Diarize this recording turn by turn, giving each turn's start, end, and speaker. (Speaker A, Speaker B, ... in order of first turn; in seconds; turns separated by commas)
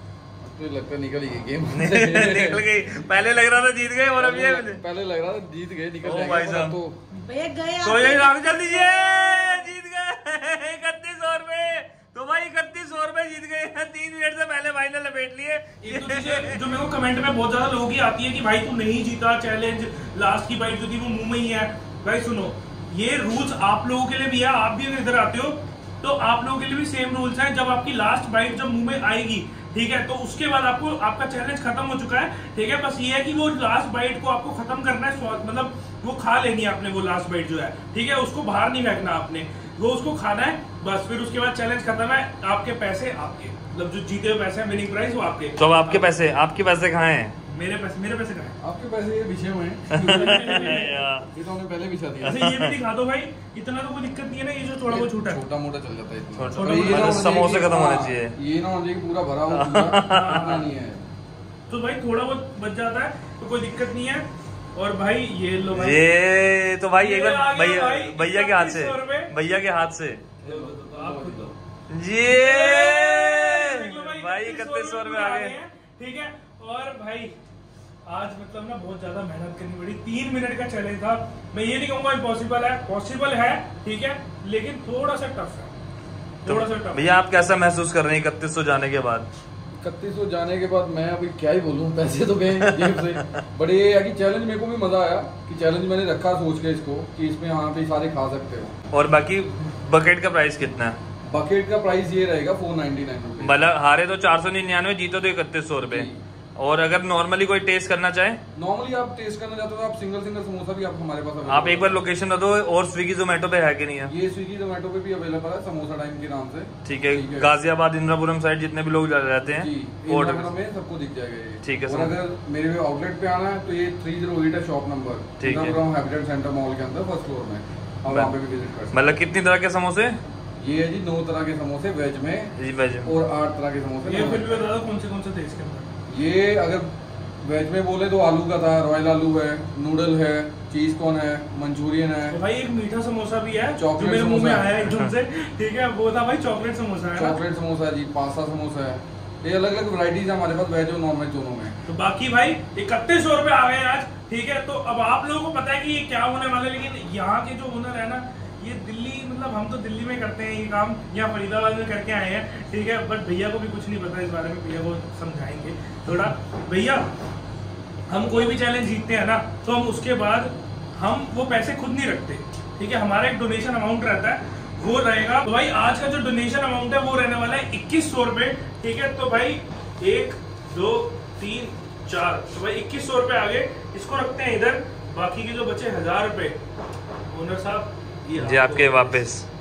Speaker A: 0.4-2.7, Speaker B: 1.7-4.8, Speaker A: 4.2-7.0, Speaker B: 6.0-6.8, Speaker C: 7.1-9.5, Speaker B: 7.8-16.6, Speaker D: 15.8-46.1, Speaker B: 45.6-47.3, Speaker D: 47.5-48.5, Speaker A: 48.6-52.5, Speaker B: 49.9-51.3, Speaker D: 50.0-51.0, Speaker D: 52.2-55.4, Speaker B: 52.3-52.8, Speaker A: 54.9-61.1, Speaker B: 56.4-58.4, Speaker D: 56.5-57.4, Speaker B: 59.5-60.6, Speaker D: 60.1-60.7, Speaker D: 61.7-66.0, Speaker B: 65.7-70.2, Speaker D: 67.0-69.3, Speaker A: 70.4-71.5, Speaker D: 70.5-71.6, Speaker B: 71.9-75.5, Speaker D: 72.3-77.3, Speaker D: 78.1-85.7, Speaker D: 86.5-87.0, Speaker B: 86.5-89.3, Speaker A: 89.8-98.8, Speaker B: 92.6-93.3, Speaker B: 98.9-101.0, Speaker A: 101.3-103.6, Speaker B: 103.4-108.4, Speaker A: 105.9-106.2, Speaker A: 108.5-112.0, Speaker B: 111.5-114.1, Speaker A: 114.1-117.5, Speaker B: 116.8-120.5, Speaker A: 119.4-129.0, Speaker B: 121.6-122.2, Speaker B: 125.4-125.8, Speaker B: 128.9-130.2, Speaker A: 130.6-134.7, Speaker B: 132.6-133.1, Speaker D: 134.1-135.9, Speaker A: 136.1-142.4, Speaker D: 142.3-147.4, Speaker A: 143.8-144.8, Speaker A: 147.1-151.8, Speaker D: 151.9-167.1, Speaker D: 168.1-186.6, Speaker D: 187.3-189.2, Speaker B: 188.4-189.5